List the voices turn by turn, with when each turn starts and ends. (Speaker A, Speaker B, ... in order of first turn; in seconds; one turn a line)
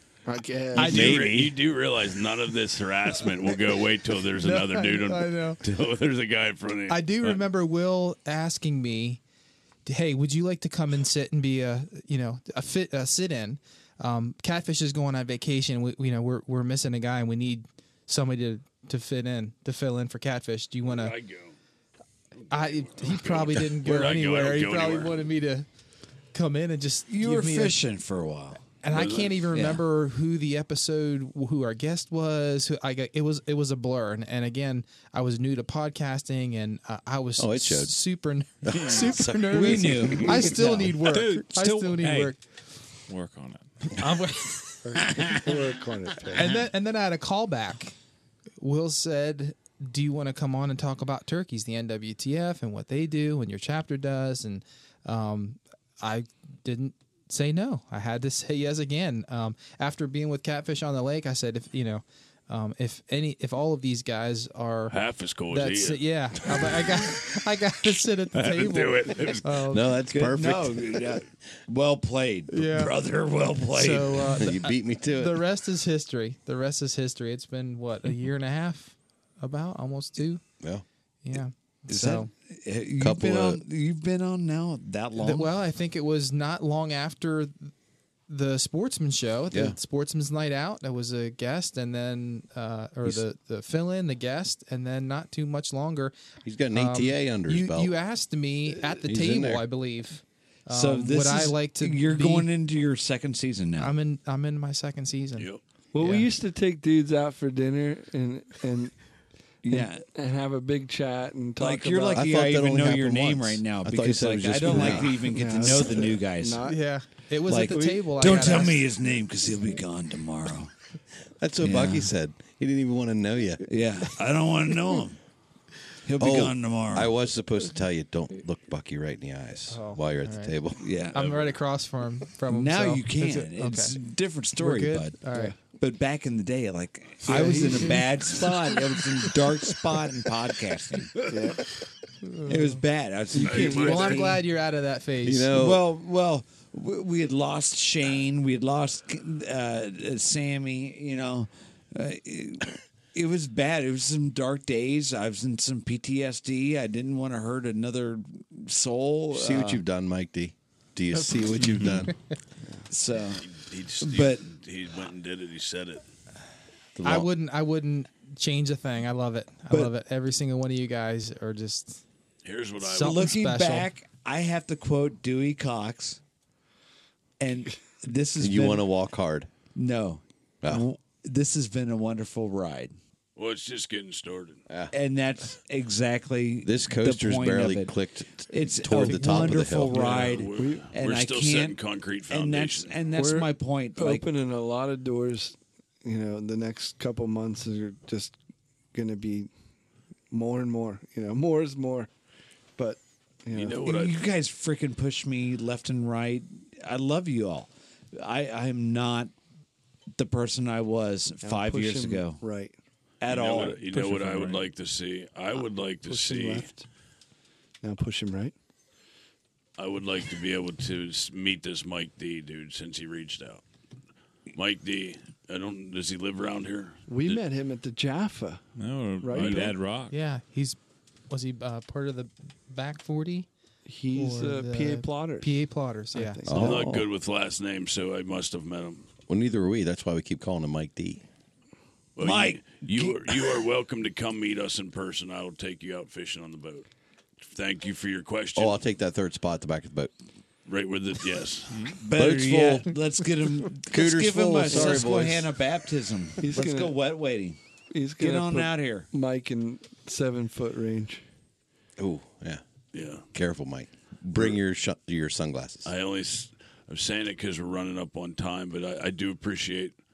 Speaker A: 0.2-1.1
Speaker B: 0.8-1.3
Speaker C: 0.8-7.4
Speaker D: 0.8-1.5
Speaker B: 4.4-5.6
Speaker B: 6.9-9.2
Speaker B: 9.8-21.1
Speaker C: 20.8-21.5
Speaker C: 22.5-25.2
Speaker B: 22.5-25.6
Speaker B: 26.3-27.8
Speaker E: 27.1-28.7
Speaker B: 28.8-42.4
Speaker C: 28.9-29.3
Speaker E: 29.5-29.8
Speaker D: 37.4-37.9
Speaker D: 38.6-40.2
Speaker E: 39.5-41.0
Speaker F: 41.0-42.3
Speaker F: 43.1-43.9
Speaker B: 44.0-44.8
Speaker A: 44.8-46.5
Speaker B: 46.3-47.9
Speaker B: 48.6-65.0
Speaker C: 64.9-66.0
Speaker B: 65.5-69.9
Speaker F: 68.3-68.7
Speaker C: 68.5-69.5
Speaker D: 69.7-71.2
Speaker E: 70.1-74.4
Speaker B: 72.5-72.9
Speaker B: 73.7-80.4
Speaker D: 74.4-75.4
Speaker B: 81.2-82.3
Speaker E: 81.9-85.5
Speaker D: 83.0-83.6
Speaker B: 85.2-87.7
Speaker B: 88.3-96.1
Speaker D: 89.5-89.8
Speaker D: 96.4-97.9
Speaker B: 96.7-102.5
Speaker D: 99.0-99.6
Speaker E: 100.7-103.9
Speaker B: 103.8-105.5
Speaker C: 105.3-105.6
Speaker A: 105.9-108.9
Speaker E: 109.6-110.0
Speaker A: 109.7-112.3
Speaker E: 111.6-116.6
Speaker D: 112.1-116.0
Speaker A: 114.7-116.8
Speaker B: 116.6-118.8
Speaker E: 117.5-120.7
Speaker A: 117.6-118.7
Speaker D: 121.4-123.6
Speaker E: 121.6-122.1
Speaker E: 123.7-125.2
Speaker E: 126.0-127.1
Speaker D: 126.2-130.8
Speaker B: 129.7-130.6
Speaker E: 130.8-131.2
Speaker B: 131.1-135.5
Speaker C: 131.1-131.6
Speaker E: 132.5-141.2
Speaker A: 137.2-138.3
Speaker B: 137.3-137.6
Speaker A: 141.3-141.6
Speaker B: 142.2-142.8
Speaker E: 142.5-144.4
Speaker A: 143.3-144.1
Speaker C: 143.4-144.2
Speaker B: 143.4-145.5
Speaker D: 145.2-145.8
Speaker E: 145.5-159.8
Speaker D: 159.3-162.1
Speaker B: 161.2-161.6
Speaker E: 162.9-163.5
Speaker C: 163.4-166.1
Speaker E: 164.0-164.4
Speaker D: 166.9-167.3
Speaker B: 167.0-172.0
Speaker C: 172.4-173.2
Speaker B: 172.8-173.9
Speaker E: 172.9-176.2
Speaker E: 177.4-178.8
Speaker D: 178.4-179.5
Speaker E: 179.7-182.9
Speaker C: 183.3-184.6
Speaker E: 184.9-187.9
Speaker D: 186.6-190.2
Speaker E: 188.5-191.8
Speaker C: 189.9-193.0
Speaker A: 190.0-190.9
Speaker E: 192.3-194.2
Speaker A: 193.1-198.4
Speaker A: 198.9-199.5
Speaker A: 200.3-202.1
Speaker A: 202.8-203.8
Speaker C: 203.5-204.1
Speaker E: 203.8-209.3
Speaker E: 210.2-212.4
Speaker A: 211.4-212.8
Speaker E: 213.2-213.8
Speaker C: 213.2-216.7
Speaker F: 213.7-214.7
Speaker A: 216.1-216.8
Speaker A: 217.8-218.5
Speaker C: 219.8-223.6
Speaker C: 224.5-227.4
Speaker A: 227.1-228.6
Speaker F: 228.8-230.2
Speaker A: 229.2-229.8
Speaker C: 229.3-229.8
Speaker B: 230.1-230.8
Speaker B: 231.3-233.5
Speaker A: 233.8-235.6
Speaker B: 234.1-236.4
Speaker A: 236.1-236.9
Speaker D: 236.5-237.1
Speaker C: 236.5-239.1
Speaker D: 239.3-241.2
Speaker C: 242.2-246.9
Speaker E: 242.2-243.6
Speaker C: 247.4-248.8
Speaker D: 248.5-250.1
Speaker C: 250.7-251.9
Speaker F: 251.7-251.9
Speaker E: 252.0-257.6
Speaker D: 252.1-252.9
Speaker D: 253.9-255.5
Speaker A: 254.7-255.1
Speaker A: 256.4-257.1
Speaker A: 257.9-261.2
Speaker E: 258.2-259.1
Speaker D: 262.0-262.6
Speaker C: 262.9-263.2
Speaker D: 263.3-265.9
Speaker C: 264.3-264.6
Speaker C: 265.8-270.0